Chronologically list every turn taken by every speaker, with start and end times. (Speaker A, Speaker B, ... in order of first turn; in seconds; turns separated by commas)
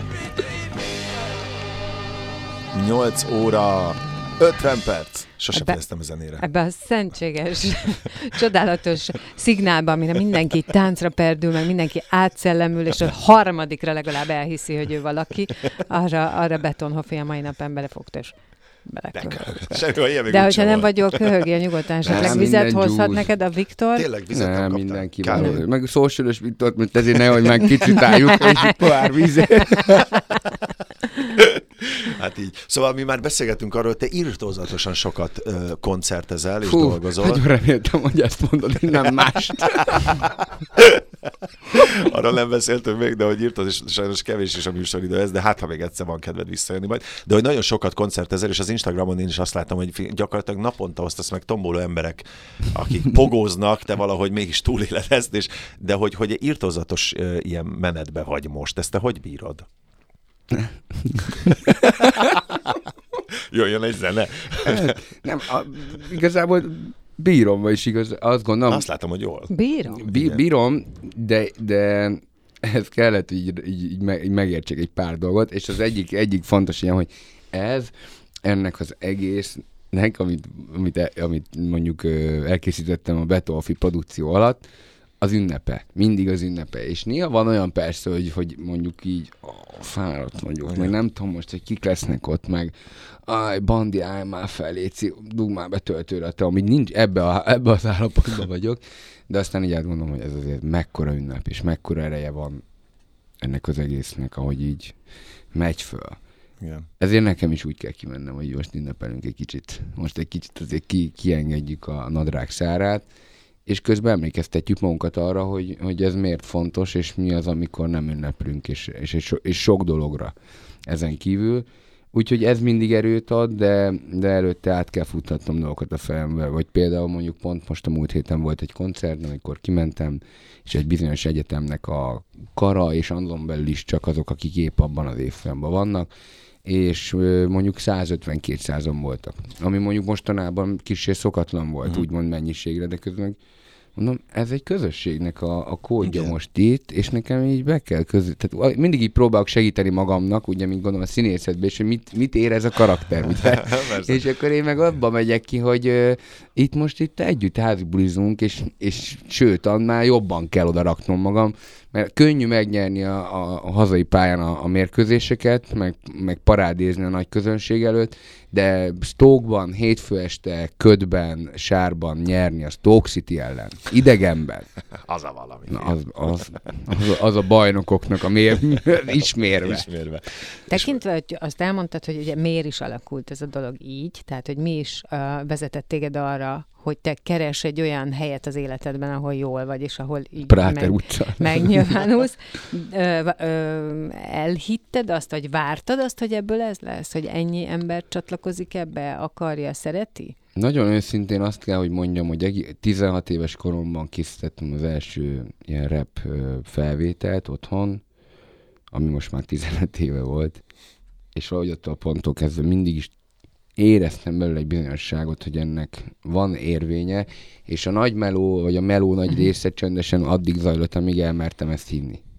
Speaker A: 2.7-6.5, Speaker B: 5.5-5.8, Speaker B: 6.4-24.1, Speaker A: 19.1-21.4, Speaker A: 22.1-22.4, Speaker C: 22.1-23.3, Speaker A: 23.9-25.6, Speaker C: 24.3-30.0, Speaker A: 31.4-37.5, Speaker C: 36.6-40.3, Speaker A: 39.7-40.1, Speaker A: 40.8-41.0, Speaker A: 41.7-59.7, Speaker C: 60.5-62.1, Speaker A: 61.5-62.8, Speaker A: 63.3-65.0, Speaker C: 64.7-68.9, Speaker A: 68.7-70.4, Speaker B: 69.5-70.1, Speaker C: 69.9-77.9, Speaker C: 78.4-84.7, Speaker C: 85.2-102.6, Speaker C: 103.4-105.0, Speaker C: 105.5-106.2, Speaker A: 106.6-106.9, Speaker C: 107.0-113.1, Speaker C: 113.7-120.3, Speaker C: 120.9-136.1, Speaker C: 136.7-143.4, Speaker C: 143.9-174.7, Speaker A: 146.0-146.3, Speaker A: 153.4-154.3, Speaker A: 175.0-176.5, Speaker C: 175.7-179.9, Speaker A: 179.6-181.0, Speaker B: 180.7-200.3, Speaker C: 190.5-191.9, Speaker C: 200.6-208.0, Speaker C: 208.9-210.7, Speaker C: 211.3-213.2, Speaker C: 213.8-222.2